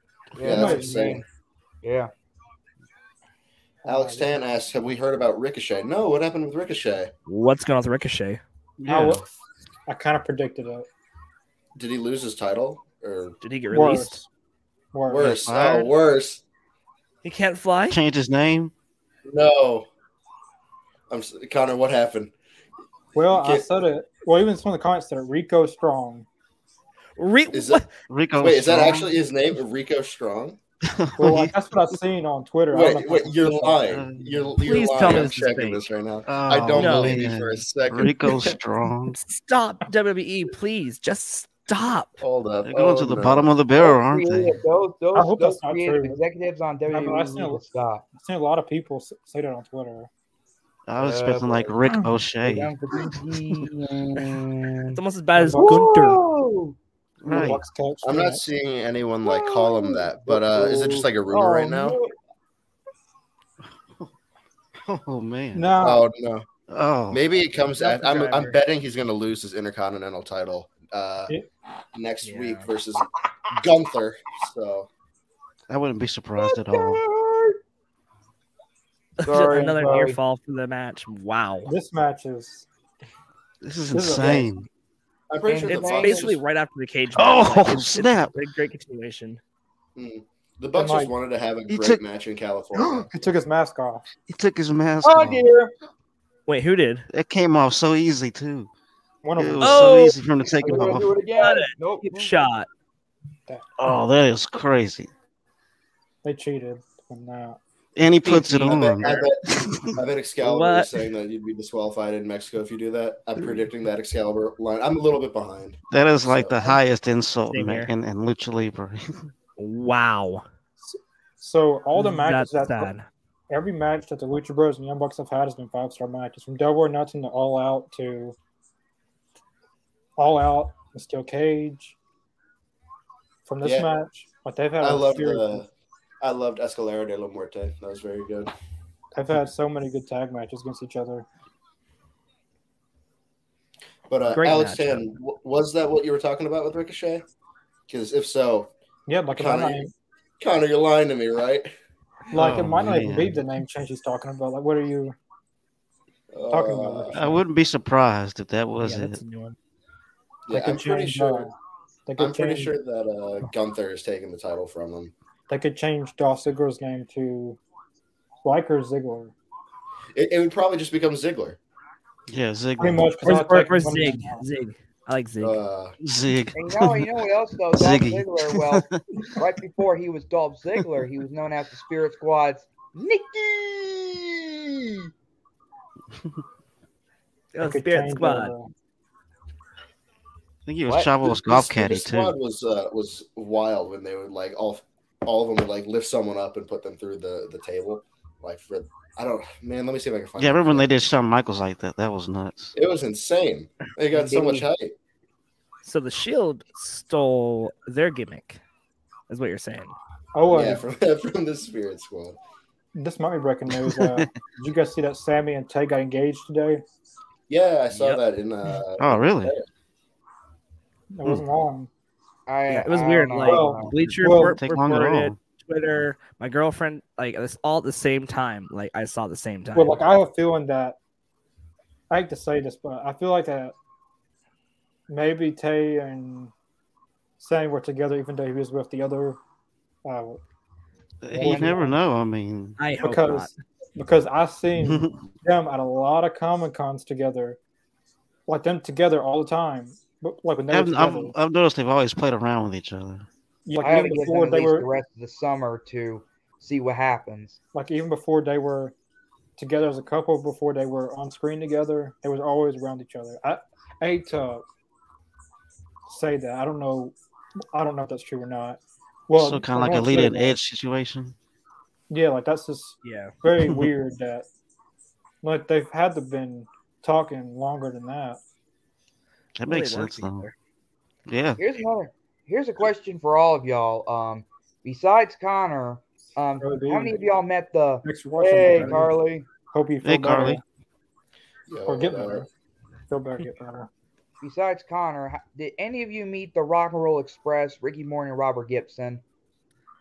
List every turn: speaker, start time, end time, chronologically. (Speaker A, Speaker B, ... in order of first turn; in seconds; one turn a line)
Speaker A: 0.4-1.2
Speaker B: 0.4-1.2
Speaker C: 0.5-1.2
Speaker A: 1.8-2.1
Speaker C: 3.9-4.3
Speaker B: 3.9-7.1
Speaker D: 7.3-8.4
Speaker E: 8.8-9.2
Speaker C: 8.9-9.3
Speaker C: 9.9-10.9
Speaker B: 11.8-13.4
Speaker D: 13.4-14.2
Speaker C: 13.7-14.2
Speaker C: 14.9-15.4
Speaker B: 15.1-16.4
Speaker E: 15.2-15.9
Speaker D: 17.2-18.0
Speaker E: 17.9-18.7
Speaker B: 19.3-19.9
Speaker B: 21.1-22.3
Speaker C: 23.1-26.3
Speaker B: 23.3-23.8
Speaker D: 27.2-27.9
Speaker B: 27.5-27.8
Speaker E: 28.1-29.1
Speaker B: 28.4-30.6
Speaker E: 30.9-31.5
Speaker C: 31.2-33.8
Speaker B: 32.7-38.6
Speaker E: 33.8-35.3
Speaker D: 34.6-35.8
Speaker E: 36.3-39.2
Speaker D: 36.7-37.2
Speaker D: 39.1-42.2
Speaker B: 42.2-43.5
Speaker E: 42.6-44.6
Speaker A: 43.8-48.0
Speaker C: 45.1-46.2
Speaker C: 46.9-47.6
Speaker C: 48.1-50.1
Speaker E: 50.9-52.7
Speaker A: 51.0-55.0
Speaker D: 54.9-56.2
Speaker C: 55.4-55.8
Speaker A: 55.6-56.8
Speaker E: 57.2-57.6
Speaker C: 57.3-58.4
Speaker B: 58.0-62.0
Speaker A: 59.2-62.1
Speaker E: 64.8-65.7
Speaker C: 65.5-66.1
Speaker B: 65.8-66.5
Speaker E: 66.7-67.2
Speaker B: 67.1-71.3
Speaker B: 71.9-74.9
Speaker D: 72.2-72.7
Speaker E: 75.7-77.0
Speaker A: 76.4-77.6
Speaker D: 79.2-81.7
Speaker A: 79.2-80.2
Speaker C: 81.7-82.7
Speaker E: 83.6-84.7
Speaker C: 83.9-84.5
Speaker B: 85.3-86.4
Speaker A: 85.5-86.3
Speaker D: 85.7-89.4
Speaker E: 87.2-88.3
Speaker B: 90.0-93.1
Speaker C: 90.8-91.1
Speaker E: 91.7-92.0
Speaker C: 92.8-94.0
Speaker E: 94.3-95.5
Speaker A: 95.0-95.7
Speaker D: 96.5-97.1
Speaker E: 97.1-98.7
Speaker C: 99.2-100.0
Speaker E: 99.4-101.2
Speaker D: 99.6-102.7
Speaker A: 100.6-102.3
Speaker E: 103.8-105.1
Speaker C: 106.2-107.6
Speaker E: 108.0-110.0
Speaker B: 108.2-116.8
Speaker D: 110.4-110.9
Speaker E: 115.9-119.3
Speaker D: 117.5-117.9
Speaker D: 119.6-120.5
Speaker C: 120.8-122.9
Speaker D: 122.0-123.1
Speaker C: 123.5-128.4
Speaker C: 130.2-132.0
Speaker C: 133.5-135.7
Speaker B: 133.6-133.9
Speaker B: 134.8-135.7
Speaker B: 136.2-138.5
Speaker C: 139.2-141.3
Speaker B: 144.1-147.2
Speaker D: 144.3-145.1
Speaker B: 147.9-148.7
Speaker C: 149.1-149.9
Speaker B: 149.4-149.8
Speaker B: 150.4-151.7
Speaker C: 152.3-155.2
Speaker E: 152.3-153.4
Speaker B: 156.3-157.3
Speaker C: 156.5-157.4
Speaker E: 157.1-159.2
Speaker D: 158.8-159.6
Speaker B: 160.5-161.5
Speaker C: 160.5-161.5
Speaker C: 162.1-162.7
Speaker B: 162.2-165.1
Speaker C: 165.5-167.6
Speaker C: 168.4-169.3
Speaker B: 170.2-171.6
Speaker E: 172.3-173.2
Speaker C: 172.8-174.4
Speaker D: 173.2-175.6
Speaker B: 175.4-176.0
Speaker E: 176.0-177.1
Speaker A: 176.6-185.1
Speaker E: 177.7-179.3
Speaker D: 187.5-188.5
Speaker C: 187.6-188.7
Speaker E: 190.7-192.4
Speaker A: 190.9-191.2
Speaker B: 191.2-200.9
Speaker E: 200.4-202.7
Speaker B: 202.7-204.9
Speaker A: 204.1-204.7
Speaker D: 205.8-208.6
Speaker D: 209.3-210.0
Speaker C: 210.3-210.8
Speaker B: 210.5-212.4
Speaker C: 212.9-216.8
Speaker E: 213.8-214.3
Speaker B: 217.5-219.7
Speaker D: 217.9-218.2
Speaker E: 219.0-219.6
Speaker C: 221.1-221.9
Speaker A: 222.5-223.9
Speaker D: 222.7-230.0
Speaker C: 223.4-224.6
Speaker E: 224.0-225.4
Speaker C: 229.8-231.0
Speaker C: 232.1-233.7
Speaker C: 235.1-236.5
Speaker C: 237.4-239.4
Speaker C: 240.1-240.4
Speaker E: 241.2-242.8
Speaker C: 241.3-242.0
Speaker D: 242.8-243.5
Speaker C: 243.0-247.6
Speaker E: 244.8-245.3
Speaker C: 248.5-251.3
Speaker E: 250.7-253.3
Speaker C: 253.7-254.9
Speaker A: 253.8-257.6
Speaker C: 257.7-258.9
Speaker C: 259.6-264.6
Speaker C: 266.1-267.1
Speaker C: 267.7-270.6
Speaker E: 269.4-271.4
Speaker C: 272.1-274.5
Speaker D: 273.0-273.3
Speaker E: 273.6-273.9
Speaker C: 275.4-278.4
Speaker E: 279.6-280.5
Speaker D: 279.7-280.5
Speaker E: 281.3-281.6
Speaker A: 281.6-289.5
Speaker C: 286.6-287.2
Speaker C: 288.0-289.1
Speaker D: 288.7-289.0
Speaker C: 289.7-290.6
Speaker E: 290.0-290.6
Speaker B: 291.7-292.5
Speaker C: 291.9-292.5
Speaker C: 293.1-293.9
Speaker A: 294.4-299.2